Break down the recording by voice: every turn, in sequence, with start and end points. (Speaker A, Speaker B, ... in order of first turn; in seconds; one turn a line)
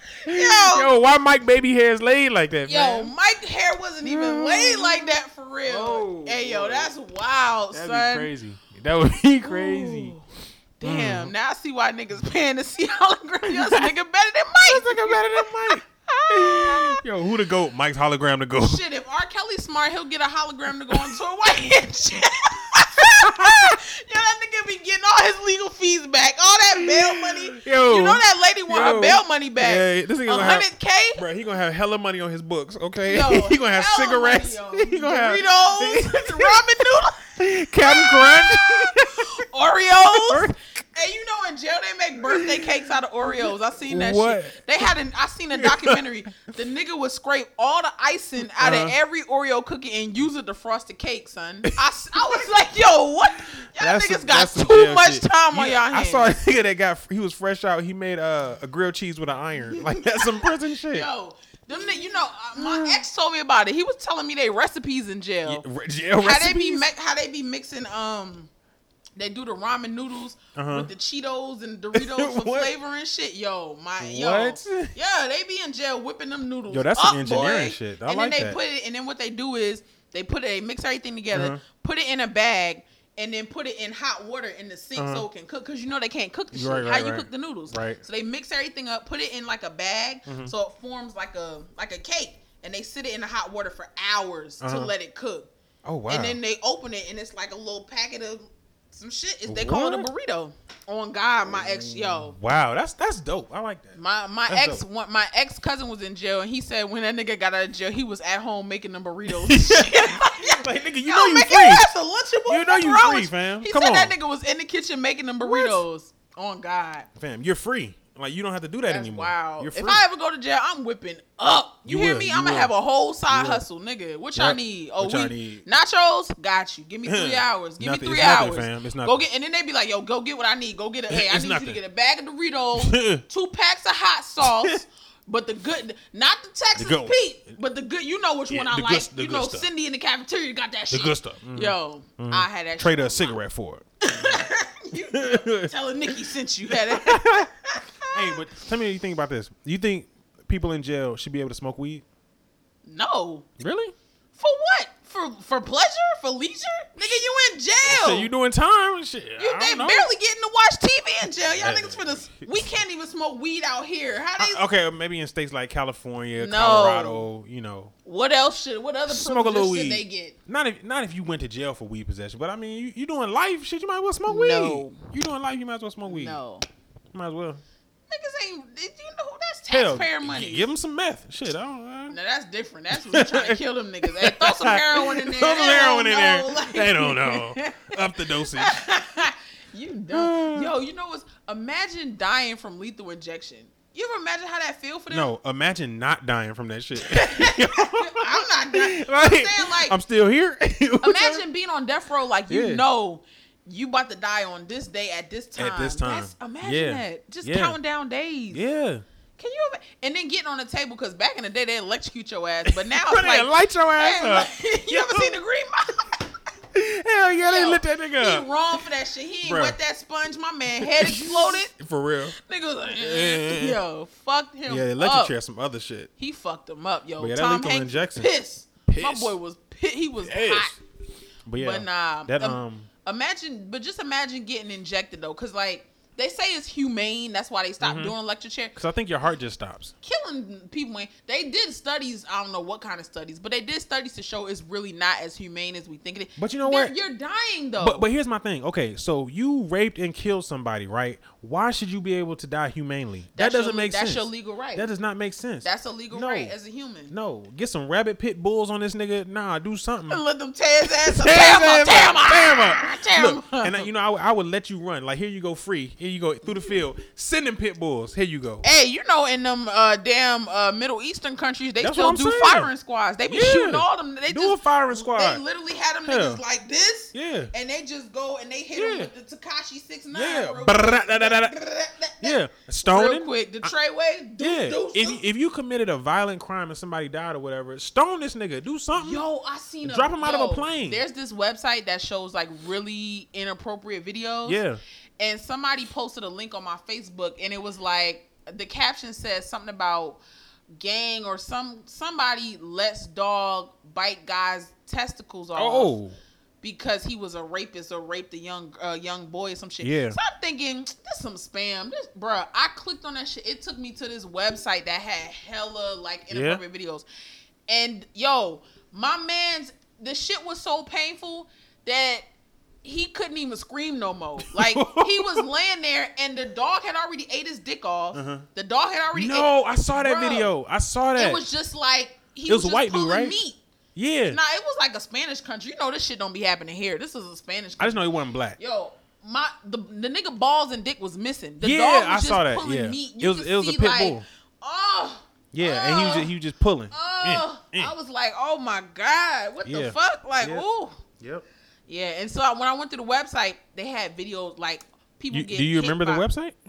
Speaker A: 0.2-0.9
Speaker B: 0.3-3.1
Speaker A: 2.7-8.3
Speaker B: 4.0-5.1
Speaker B: 5.7-6.9
Speaker B: 7.7-10.1
Speaker A: 9.4-10.2
Speaker A: 10.8-17.0
Speaker B: 10.8-11.3
Speaker B: 13.5-13.9
Speaker B: 14.6-18.8
Speaker A: 18.6-31.2
Speaker B: 20.9-21.2
Speaker B: 23.0-23.8
Speaker B: 26.8-36.6
Speaker A: 33.1-56.4
Speaker B: 37.4-39.4
Speaker B: 40.0-40.6
Speaker B: 42.3-42.7
Speaker B: 43.9-44.6
Speaker B: 45.5-46.0
Speaker B: 48.6-49.0
Speaker B: 53.8-61.1
Speaker A: 59.7-65.7
Speaker B: 62.5-63.0
Speaker B: 65.5-66.9
Speaker A: 66.2-68.5
Speaker A: 69.2-95.5
Speaker B: 70.5-70.9
Speaker B: 71.9-72.7
Speaker B: 74.0-75.0
Speaker B: 76.7-78.6
Speaker B: 81.3-81.6
Speaker B: 85.0-85.3
Speaker B: 86.5-88.0
Speaker B: 90.3-90.5
Speaker B: 94.6-94.9
Speaker B: 95.8-96.4
Speaker A: 96.1-102.4
Speaker B: 99.5-100.1
Speaker B: 101.5-104.0
Speaker A: 103.9-117.1
Speaker B: 104.5-104.8
Speaker B: 109.3-111.9
Speaker B: 112.5-114.1
Speaker B: 115.4-115.8
Speaker B: 117.2-120.0
Speaker A: 118.9-143.4
Speaker B: 121.9-122.7
Speaker B: 123.3-123.6
Speaker B: 124.4-125.7
Speaker B: 127.1-129.2
Speaker B: 131.1-131.8
Speaker B: 132.8-133.2
Speaker B: 134.4-134.8
Speaker B: 136.8-137.2
Speaker B: 138.5-139.7
Speaker B: 140.9-144.4
Speaker A: 144.0-148.4
Speaker B: 145.1-147.5
Speaker B: 148.1-152.0
Speaker A: 152.8-153.5
Speaker B: 153.6-153.9
Speaker A: 154.4-158.3
Speaker B: 157.8-160.1
Speaker A: 159.4-164.6
Speaker B: 161.5-162.8
Speaker B: 164.4-167.9
Speaker A: 166.4-167.3
Speaker A: 168.1-170.4
Speaker B: 169.1-176.4
Speaker A: 174.3-175.1
Speaker A: 176.1-176.7
Speaker B: 177.1-177.6
Speaker A: 178.1-180.7
Speaker B: 179.7-182.2
Speaker A: 182.1-195.3
Speaker B: 182.9-188.8
Speaker B: 190.1-190.7
Speaker B: 195.1-201.4
Speaker A: 197.0-200.0
Speaker A: 201.0-208.7
Speaker B: 202.5-202.8
Speaker B: 205.6-207.8
Speaker B: 208.5-209.0
Speaker A: 209.4-216.3
Speaker B: 212.7-215.4
Speaker B: 216.7-218.8
Speaker A: 217.4-221.7
Speaker B: 219.4-219.8
Speaker B: 220.8-222.4
Speaker A: 222.3-225.3
Speaker B: 223.0-223.8
Speaker B: 224.7-226.1
Speaker A: 226.2-230.8
Speaker B: 227.2-228.3
Speaker B: 228.9-229.4
Speaker B: 230.2-230.8
Speaker B: 231.5-232.9
Speaker A: 231.6-238.8
Speaker B: 237.8-238.2
Speaker B: 238.8-239.9
Speaker A: 240.0-248.1
Speaker B: 246.4-246.9
Speaker B: 247.8-256.6
Speaker A: 253.3-254.9
Speaker A: 255.6-257.1
Speaker B: 257.1-260.2
Speaker A: 260.1-263.9
Speaker B: 260.9-268.7
Speaker A: 268.6-285.2
Speaker B: 271.8-272.7
Speaker B: 273.3-275.4
Speaker B: 276.1-276.4
Speaker B: 277.1-277.5
Speaker B: 278.8-279.1
Speaker B: 280.1-281.6
Speaker B: 282.2-283.7
Speaker B: 284.4-289.2
Speaker A: 288.9-294.6
Speaker B: 289.8-291.0
Speaker B: 294.5-294.8
Speaker A: 295.2-300.2
Speaker A: 300.8-306.0
Speaker B: 305.6-306.2
Speaker A: 306.6-317.1
Speaker B: 309.8-310.2
Speaker B: 316.3-316.6
Speaker A: 317.7-322.3
Speaker A: 322.8-330.5
Speaker B: 324.5-325.5
Speaker B: 328.1-328.5
Speaker B: 329.1-331.5
Speaker A: 331.2-333.6
Speaker B: 332.5-333.4
Speaker B: 333.9-334.4
Speaker A: 334.3-346.3
Speaker B: 337.8-338.6
Speaker B: 341.6-344.2
Speaker B: 345.5-347.9
Speaker A: 346.9-351.0
Speaker B: 349.6-350.6
Speaker B: 351.2-351.4
Speaker A: 351.9-356.3
Speaker B: 355.3-356.6